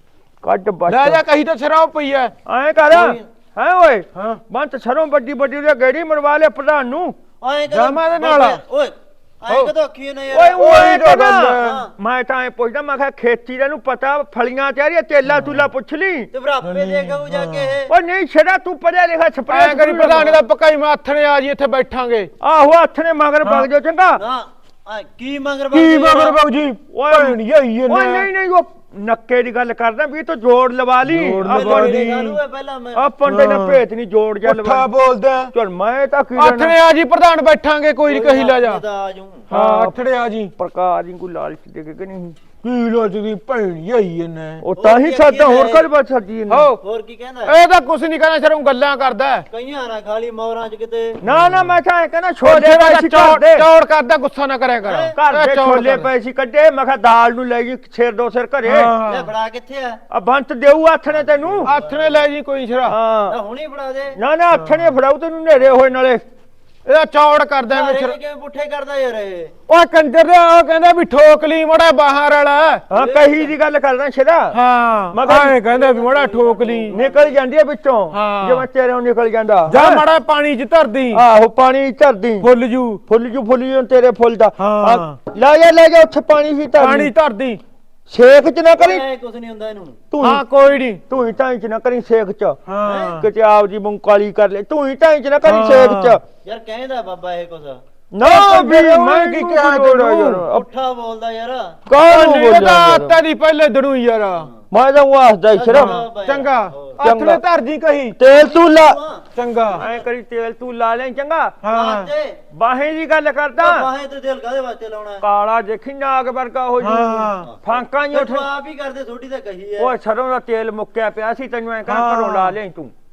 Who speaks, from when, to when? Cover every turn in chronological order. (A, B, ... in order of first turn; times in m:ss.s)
0:00.4-0:01.2 A
0:00.9-0:02.3 B
0:02.5-0:07.2 A
0:02.9-0:03.3 C
0:04.1-0:04.4 B
0:07.4-0:11.9 C
0:07.7-0:08.6 B
0:10.3-0:16.3 A
0:10.6-0:11.8 B
0:15.2-0:15.7 B
0:16.3-0:17.9 C
0:16.6-0:17.8 B
0:17.9-0:20.3 A
0:19.5-0:22.3 B
0:22.4-0:24.2 A
0:23.4-0:23.7 B
0:24.2-0:26.4 C
0:25.7-0:28.3 B
0:26.9-0:32.0 A
0:31.0-0:32.4 B
0:31.5-0:33.0 C
0:33.0-0:34.9 A
0:33.3-0:33.8 B
0:34.4-0:35.5 B
0:35.5-0:36.8 A
0:36.4-0:38.8 B
0:38.0-0:39.5 C
0:39.5-0:40.5 B
0:39.5-0:40.0 A
0:40.6-0:42.4 A
0:42.6-0:44.6 B
0:44.6-0:46.7 A
0:44.8-0:45.9 C
0:46.5-0:46.8 B
0:46.8-0:47.6 C
0:47.4-0:49.5 B
0:49.5-0:51.2 C
0:51.2-0:53.6 A
0:51.3-0:51.7 B
0:52.4-0:56.1 B
0:54.8-0:55.2 C
0:55.2-0:58.9 A
0:58.6-0:59.3 B
0:59.0-1:00.0 C
1:00.1-1:01.7 A
1:01.1-1:02.3 C
1:01.6-1:03.0 B
1:02.9-1:03.4 A
1:03.3-1:04.2 C
1:04.2-1:06.2 A
1:04.5-1:04.9 B
1:06.9-1:08.2 B
1:07.7-1:09.5 C
1:09.7-1:12.8 B
1:12.9-1:14.6 A
1:12.9-1:13.5 C
1:14.5-1:17.0 B
1:15.1-1:15.6 A
1:15.5-1:17.3 C
1:16.9-1:20.0 A
1:18.1-1:18.6 B
1:19.7-1:21.2 B
1:21.1-1:22.5 A
1:22.4-1:23.0 B
1:23.1-1:27.1 A
1:24.6-1:25.2 B
1:26.8-1:27.6 B
1:28.1-1:29.0 A
1:28.8-1:30.0 C
1:30.1-1:30.4 A
1:30.2-1:31.0 B
1:31.1-1:32.6 A
1:32.6-1:33.3 B
1:32.8-1:33.2 C
1:33.1-1:36.2 A
1:35.4-1:36.2 B
1:36.4-1:37.8 C
1:38.1-1:40.6 A
1:38.2-1:40.5 B
1:40.5-1:41.8 C
1:41.9-1:43.2 A
1:42.0-1:44.5 B
1:44.7-1:46.0 A
1:45.5-1:47.0 C
1:45.7-1:48.2 B
1:47.0-1:47.4 A
1:48.2-1:49.0 A
1:48.4-1:50.0 C
1:49.4-1:49.8 B
1:49.8-1:51.5 A
1:51.6-1:52.1 B
1:51.7-1:52.4 C
1:52.5-1:53.9 A
1:53.6-1:55.2 C
1:55.2-1:58.5 A
1:56.8-1:57.5 B
1:57.4-1:59.9 C
1:59.8-2:02.9 A
2:01.9-2:02.5 B